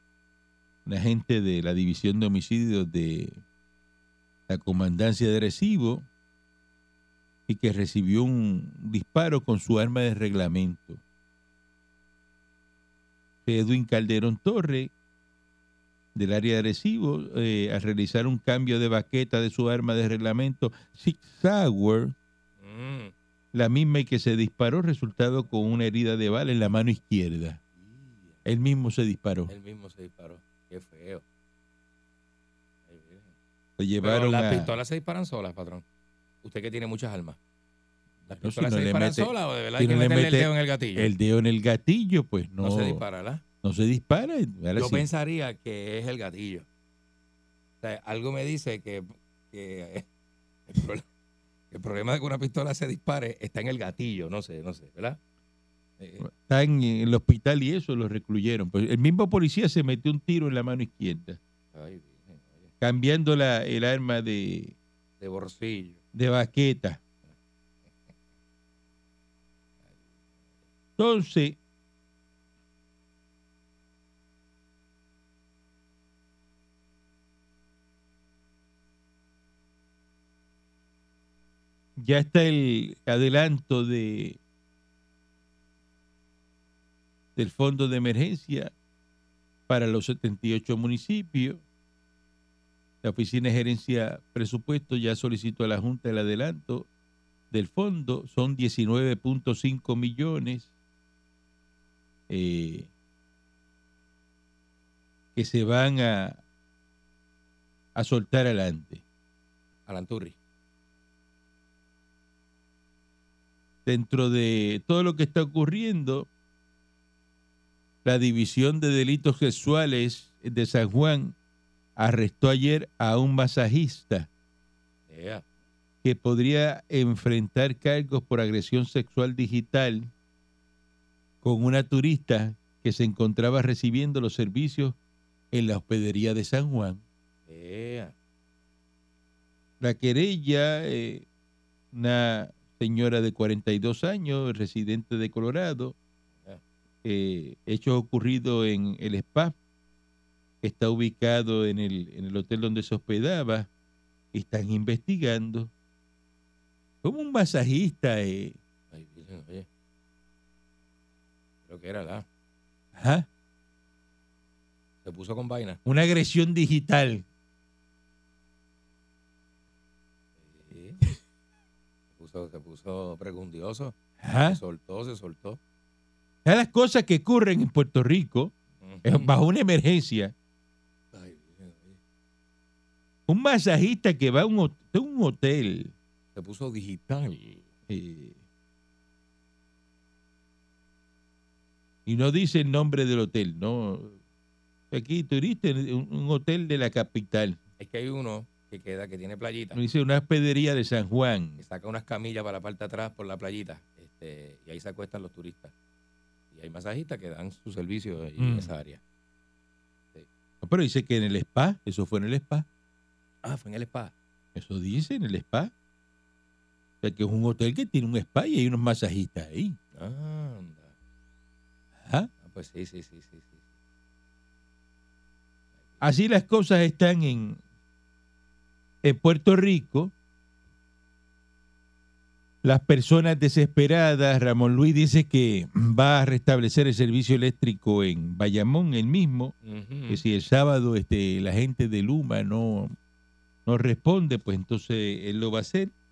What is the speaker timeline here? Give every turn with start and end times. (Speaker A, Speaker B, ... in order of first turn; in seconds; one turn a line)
Speaker A: 0.8-3.4
Speaker A: 4.5-6.0
Speaker A: 7.5-11.0
Speaker A: 13.4-14.9
Speaker A: 16.1-22.1
Speaker B: 22.6-23.1
Speaker A: 23.5-27.6
Speaker B: 27.8-28.4
Speaker A: 28.4-29.5
Speaker B: 29.5-31.2
Speaker B: 32.9-33.3
Speaker A: 33.8-34.7
Speaker B: 34.0-35.8
Speaker B: 36.4-37.4
Speaker B: 38.3-41.1
Speaker A: 38.4-43.0
Speaker B: 42.6-43.4
Speaker A: 43.6-45.0
Speaker B: 44.8-46.6
Speaker B: 47.8-50.0
Speaker B: 50.7-51.0
Speaker B: 51.7-55.2
Speaker B: 56.0-56.3
Speaker A: 56.2-61.4
Speaker B: 61.7-62.7
Speaker A: 62.8-64.7
Speaker B: 65.2-66.0
Speaker A: 66.1-67.0
Speaker A: 71.0-71.6
Speaker A: 82.0-84.4
Speaker A: 87.3-88.7
Speaker A: 89.7-91.6
Speaker A: 93.0-96.9
Speaker A: 97.5-100.7
Speaker A: 102.3-102.9
Speaker A: 105.3-106.4
Speaker A: 107.9-109.0
Speaker B: 109.9-110.3
Speaker A: 113.8-116.3
Speaker A: 118.0-121.3
Speaker A: 122.0-124.3
Speaker B: 125.1-125.4
Speaker A: 126.0-130.1
Speaker A: 131.4-134.9
Speaker A: 135.5-137.0
Speaker B: 137.5-138.1
Speaker A: 139.8-141.2
Speaker A: 141.9-145.9
Speaker A: 147.0-149.5
Speaker A: 150.6-153.7
Speaker A: 154.3-155.7
Speaker A: 157.0-158.6
Speaker B: 158.9-159.7
Speaker B: 161.7-162.2
Speaker A: 162.9-163.2
Speaker B: 165.0-165.8
Speaker A: 165.8-167.2
Speaker B: 170.4-171.0
Speaker B: 172.2-175.6
Speaker A: 174.2-174.6
Speaker A: 176.4-178.5
Speaker B: 178.8-179.3
Speaker A: 179.0-180.3
Speaker B: 181.1-182.0
Speaker A: 183.3-185.9
Speaker B: 186.3-187.7
Speaker A: 187.9-188.4
Speaker A: 192.1-194.2
Speaker A: 194.9-197.6
Speaker B: 197.8-199.8
Speaker A: 199.7-201.6
Speaker B: 201.6-205.7
Speaker B: 206.5-209.0
Speaker A: 208.4-208.7
Speaker A: 210.6-212.7
Speaker B: 213.4-214.1
Speaker A: 214.5-215.7
Speaker A: 217.0-219.8
Speaker B: 219.9-220.9
Speaker A: 222.0-222.3
Speaker B: 222.4-223.6
Speaker A: 226.0-227.6
Speaker A: 229.0-230.1
Speaker A: 232.6-239.5
Speaker B: 239.6-240.2
Speaker A: 240.1-242.9
Speaker A: 243.7-245.9